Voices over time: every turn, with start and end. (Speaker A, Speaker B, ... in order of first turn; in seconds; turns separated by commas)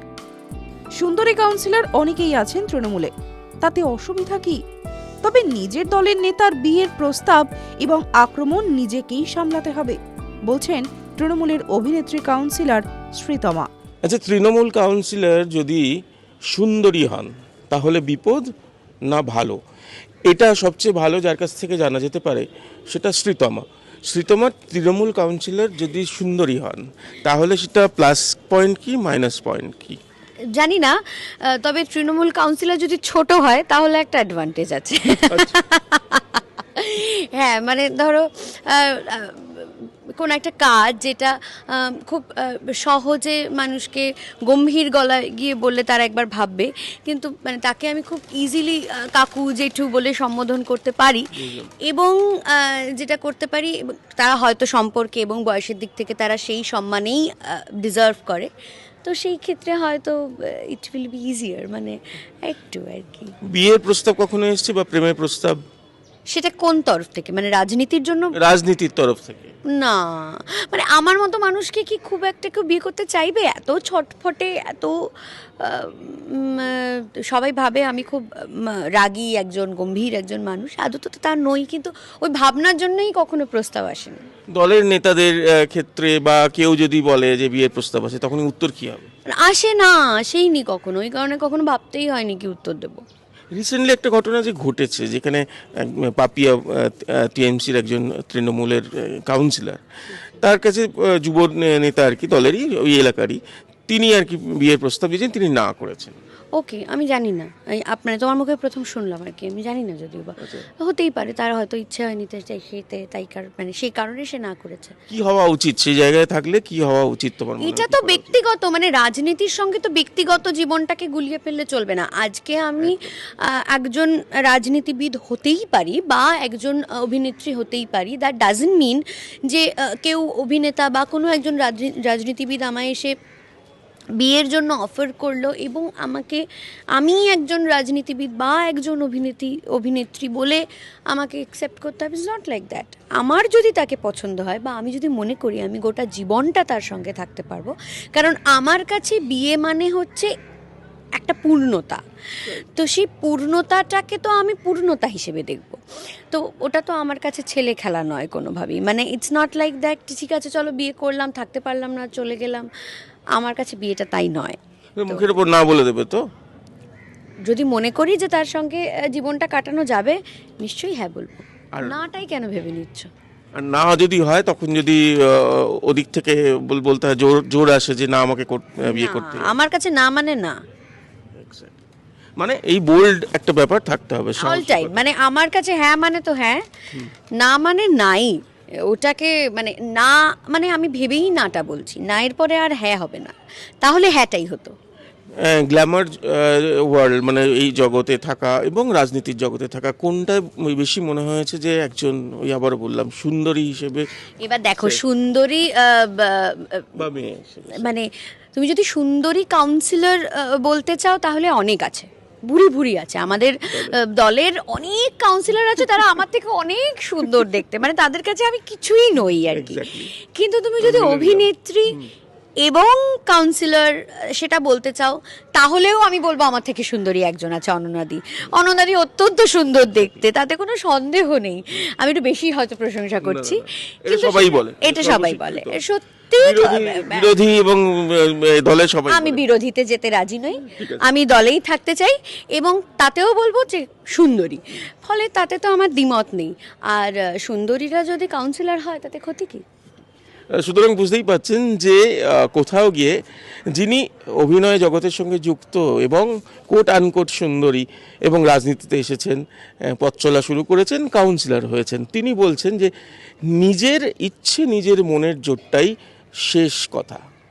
Speaker A: 1.0-4.6, Speaker A: 5.2-13.7, Speaker B: 14.1-15.9, Speaker B: 16.5-18.5, Speaker B: 19.1-19.6, Speaker B: 20.3-30.0, Speaker C: 30.6-51.3, Speaker B: 35.3-35.6, Speaker B: 51.4-51.7, Speaker C: 51.9-58.5, Speaker C: 59.0-63.3, Speaker B: 63.5-65.6, Speaker C: 66.3-68.3, Speaker B: 68.3-69.5, Speaker C: 69.7-74.9, Speaker C: 75.6-84.2, Speaker B: 84.5-89.1, Speaker C: 89.4-93.0, Speaker B: 93.5-99.8, Speaker B: 100.4-106.2, Speaker C: 106.5-115.0, Speaker B: 110.4-110.7, Speaker B: 115.1-118.3, Speaker C: 117.6-133.1, Speaker B: 122.8-123.1, Speaker C: 134.2-136.4, Speaker C: 136.9-150.3, Speaker C: 151.2-152.0, Speaker C: 152.8-162.7, Speaker C: 163.3-165.4, Speaker B: 165.0-166.2, Speaker C: 167.5-173.1, Speaker B: 173.6-179.6, Speaker C: 178.9-180.6, Speaker B: 181.3-181.8, Speaker B: 182.4-185.1, Speaker C: 184.4-186.6, Speaker C: 187.4-188.3, Speaker C: 188.9-194.8, Speaker B: 195.4-204.1, Speaker C: 204.4-207.1, Speaker B: 204.8-205.0, Speaker B: 207.0-207.9, Speaker C: 207.8-222.0, Speaker B: 213.7-214.0, Speaker B: 219.5-220.1, Speaker B: 220.8-222.1, Speaker C: 222.6-237.3, Speaker B: 233.2-235.8, Speaker B: 236.4-239.4, Speaker C: 239.1-249.6, Speaker B: 240.6-241.1, Speaker B: 250.5-253.2, Speaker B: 253.7-262.9, Speaker B: 263.5-265.9, Speaker B: 266.5-267.2